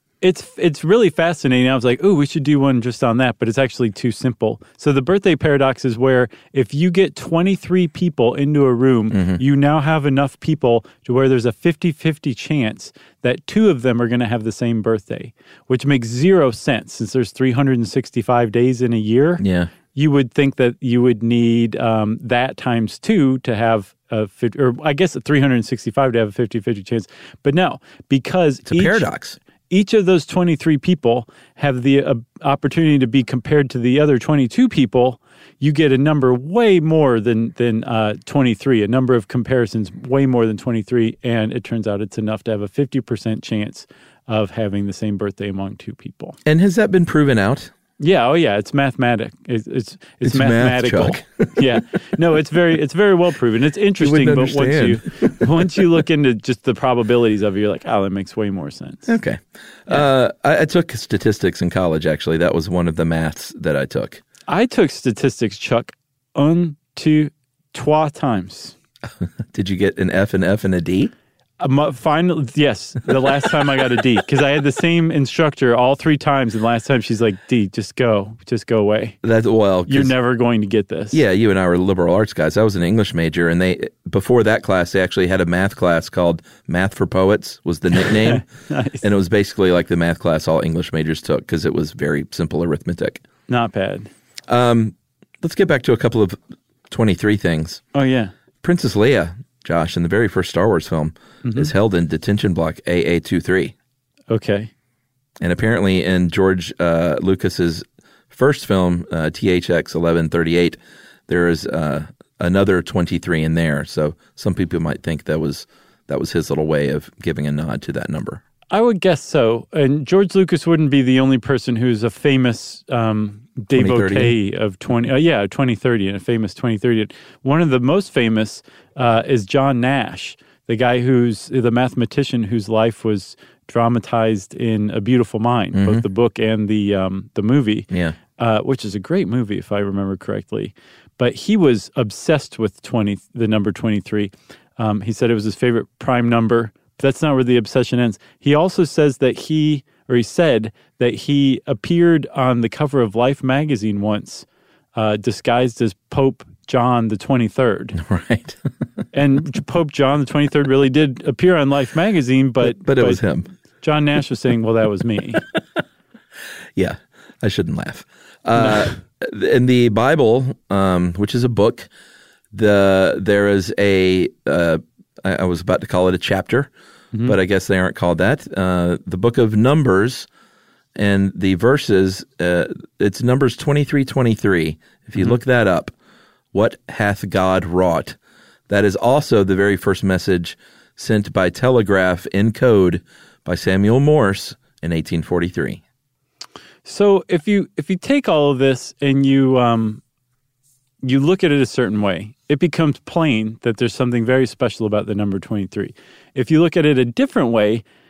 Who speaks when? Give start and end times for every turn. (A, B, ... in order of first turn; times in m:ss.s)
0:00.2-0:19.4 A
0:09.1-0:09.4 B
0:19.4-0:19.7 B
0:19.9-0:29.1 A
0:28.7-0:29.4 B
0:29.7-0:46.4 A
0:46.4-0:47.7 B
0:48.0-0:59.1 A
0:50.2-0:51.7 B
0:54.0-0:55.7 B
0:59.1-1:04.2 B
1:04.5-1:08.8 A
1:09.2-1:11.1 B
1:11.6-1:19.2 A
1:19.2-1:20.1 B
1:19.9-1:21.2 A
1:21.1-1:28.4 B
1:28.0-1:29.0 A
1:29.0-1:33.2 B
1:33.5-1:34.1 A
1:34.5-1:36.4 B
1:36.9-1:37.8 B
1:37.9-1:38.3 A
1:38.6-1:43.7 B
1:41.4-1:41.7 A
1:44.3-1:44.7 A
1:45.4-1:58.4 B
1:58.7-2:38.0 A
2:03.7-2:04.4 B
2:15.7-2:16.0 B
2:17.9-2:18.2 B
2:38.0-2:38.6 B
2:39.1-2:43.2 A
2:42.6-2:43.5 B
2:43.8-2:45.5 A
2:46.8-2:51.9 B
2:52.5-2:56.7 B
2:57.2-3:00.3 B
3:01.0-3:05.9 B
3:06.5-3:08.2 B
3:08.7-3:15.8 B
3:16.8-3:20.0 A
3:21.0-3:27.8 A